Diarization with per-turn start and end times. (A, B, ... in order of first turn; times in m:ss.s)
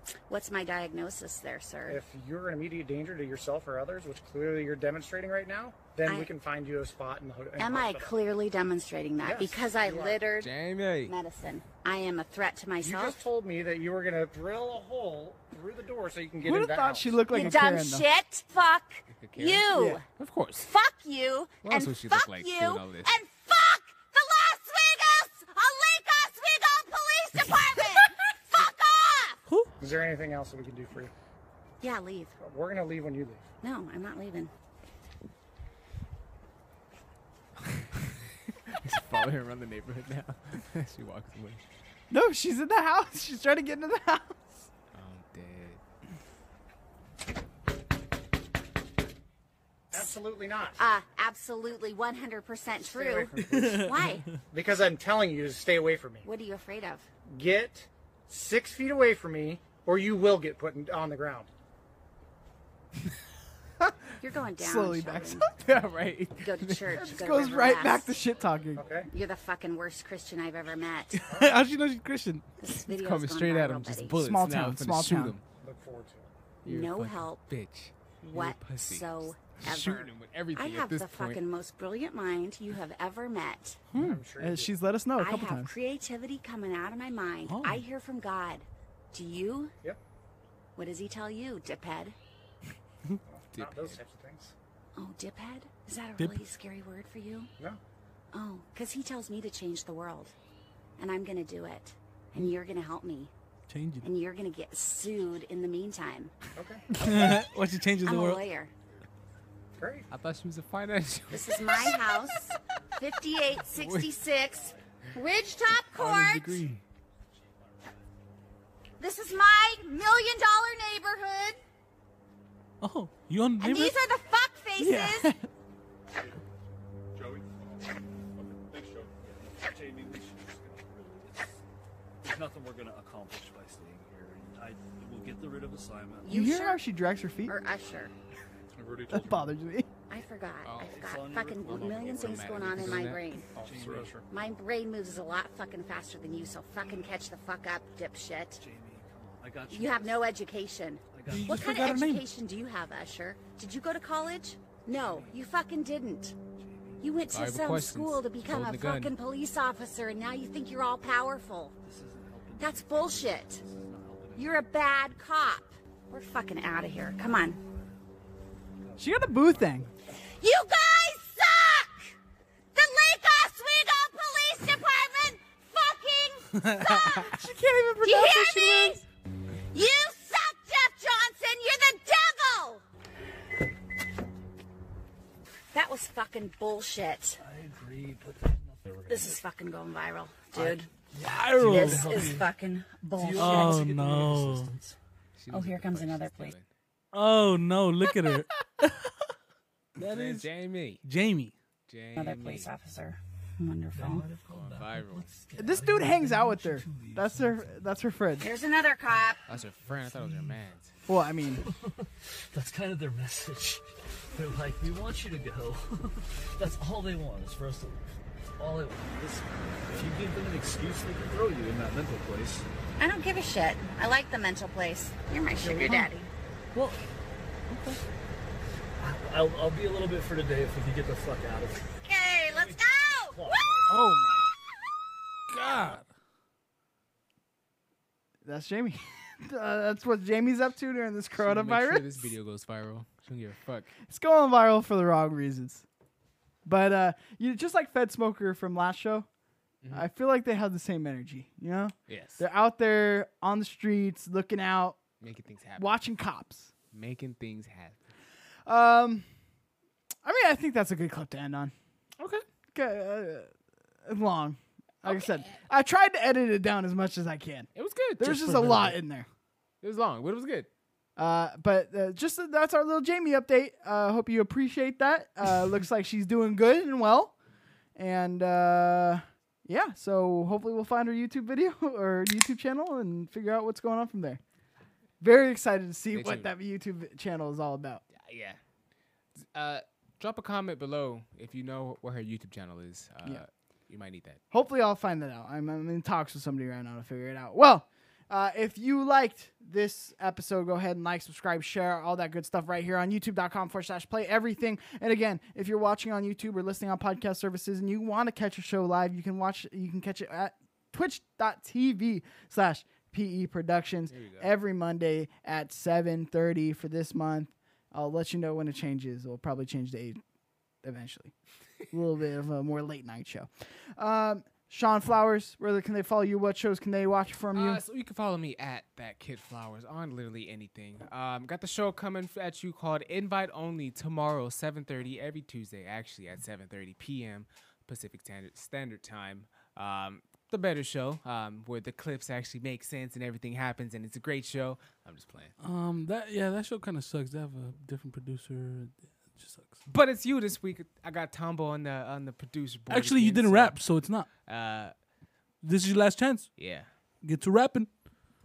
0:00.3-0:02.0 A
0:01.9-0:08.2 B
0:06.0-0:06.3 A
0:07.6-0:10.5 A
0:09.2-0:10.2 B
0:10.4-0:11.2 C
0:11.1-0:13.3 A
0:12.8-0:17.4 B
0:16.4-0:18.1 D
0:17.3-0:20.0 A
0:19.1-0:20.7 C
0:19.7-0:20.0 D
0:20.6-0:29.4 A
0:21.7-0:23.1 C
0:29.8-0:31.1 B
0:31.8-0:32.4 A
0:32.4-0:33.5 B
0:33.6-0:34.5 A
0:37.8-0:41.6 C
0:42.1-0:44.4 D
0:44.9-0:45.8 C
0:49.9-0:50.8 B
0:50.8-0:54.4 A
0:52.8-0:53.9 B
0:53.4-0:54.4 E
0:54.5-0:56.3 B
0:56.2-0:57.1 A
0:57.3-1:01.5 B
1:04.2-1:05.6 A
1:04.6-1:05.4 D
1:05.6-1:07.0 C
1:06.4-1:08.2 A
1:06.9-1:08.9 D
1:08.8-1:09.1 B
1:09.0-1:11.2 A
1:11.2-1:12.4 E
1:11.3-1:11.6 B
1:12.6-1:14.2 A
1:12.8-1:15.4 C
1:14.2-1:15.4 D
1:15.6-1:16.3 B
1:16.6-1:17.5 A
1:16.6-1:21.4 C
1:18.2-1:23.8 A
1:23.9-1:24.2 E
1:24.0-1:24.8 B
1:24.4-1:25.7 D
1:25.2-1:29.7 A
1:27.5-1:27.8 E
1:30.8-1:32.2 A
1:33.2-1:34.5 B
1:33.5-1:34.0 C
1:35.0-1:37.5 A
1:38.3-1:40.3 A
1:41.0-1:43.3 A
1:43.7-1:44.1 E
1:44.0-1:46.3 A
1:46.6-1:46.8 B
1:46.9-1:48.4 E
1:48.0-1:48.7 A
1:49.8-1:50.1 B
1:50.1-1:52.0 C
1:51.3-1:56.6 A
1:53.4-1:53.8 F
1:53.7-1:54.1 C
1:54.5-1:54.8 F
1:56.0-1:56.8 C
1:56.1-1:56.7 E
1:59.0-2:01.6 A
2:02.8-2:04.0 E
2:03.6-2:05.4 A
2:04.8-2:05.4 D
2:04.8-2:05.1 E
2:07.1-2:10.0 G
2:09.2-2:11.6 F
2:12.2-2:16.4 F
2:16.2-2:16.8 A
2:16.3-2:17.5 D
2:17.5-2:18.1 A
2:18.7-2:19.5 G
2:19.1-2:19.9 D
2:20.1-2:23.5 A
2:20.6-2:21.0 C
2:20.7-2:24.2 F
2:21.6-2:23.3 C
2:23.6-2:24.3 G
2:24.2-2:28.6 A
2:28.5-2:30.4 F
2:29.7-2:36.4 A
2:31.1-2:32.0 F
2:31.3-2:32.2 E
2:34.8-2:35.4 F
2:36.6-2:37.1 F
2:37.0-2:41.8 A
2:37.3-2:39.2 C
2:41.8-2:45.2 F
2:42.6-2:43.6 A
2:44.4-2:47.6 A
2:47.1-2:48.0 F
2:48.8-2:49.9 F
2:49.0-2:49.9 D
2:50.4-2:52.1 A
2:52.8-2:57.4 A
2:56.6-2:57.3 E
2:57.3-2:59.0 D
2:58.0-2:59.0 A
2:59.7-3:02.8 A
3:05.7-3:07.4 A
3:07.4-3:09.5 F
3:09.1-3:10.9 A
3:10.5-3:15.0 F
3:11.2-3:12.2 E
3:11.6-3:13.8 A
3:13.4-3:14.7 E
3:15.4-3:16.7 C
3:15.5-3:16.5 A
3:17.1-3:19.1 E
3:20.0-3:21.5 E
3:20.1-3:21.0 C
3:21.9-3:22.7 C
3:22.2-3:24.3 A
3:23.9-3:27.8 F
3:24.5-3:25.3 C
3:25.6-3:28.5 D
3:28.4-3:29.5 A
3:29.5-3:30.9 C
3:29.6-3:30.6 F
3:31.0-3:31.6 D
3:31.5-3:42.7 F
3:43.0-3:46.3 A
3:45.6-3:46.2 F
3:47.7-3:48.0 E
3:49.0-3:51.9 F
3:52.0-3:53.7 A
3:52.4-3:53.9 F
3:53.9-3:54.4 E
3:55.5-3:56.1 E
3:58.4-4:02.3 D
4:01.3-4:03.9 C
4:04.1-4:05.8 D
4:06.6-4:09.3 D
4:09.8-4:10.1 C
4:09.9-4:15.0 D
4:12.1-4:12.4 C
4:15.2-4:16.0 C
4:15.8-4:16.7 D
4:16.9-4:18.0 C
4:18.7-4:19.3 D
4:20.2-4:21.7 D
4:22.2-4:22.4 C
4:22.7-4:23.5 D
4:24.1-4:29.3 D
4:25.0-4:25.6 C
4:27.8-4:29.0 C
4:29.8-4:30.7 C
4:31.2-4:37.4 D
4:38.0-4:44.4 D
4:45.2-4:48.0 D
4:46.1-4:46.5 C
4:48.1-4:48.6 C
4:49.4-4:54.4 C
4:54.5-5:20.2 D
5:14.1-5:14.5 C
5:20.8-5:21.3 D
5:21.9-5:27.8 D
5:27.5-5:45.5 C
5:45.6-5:49.8 E
5:49.9-5:53.8 C
5:52.9-5:54.3 E
5:54.5-5:54.9 C
5:55.6-5:56.6 E
5:56.6-5:56.9 C
5:57.2-5:57.9 E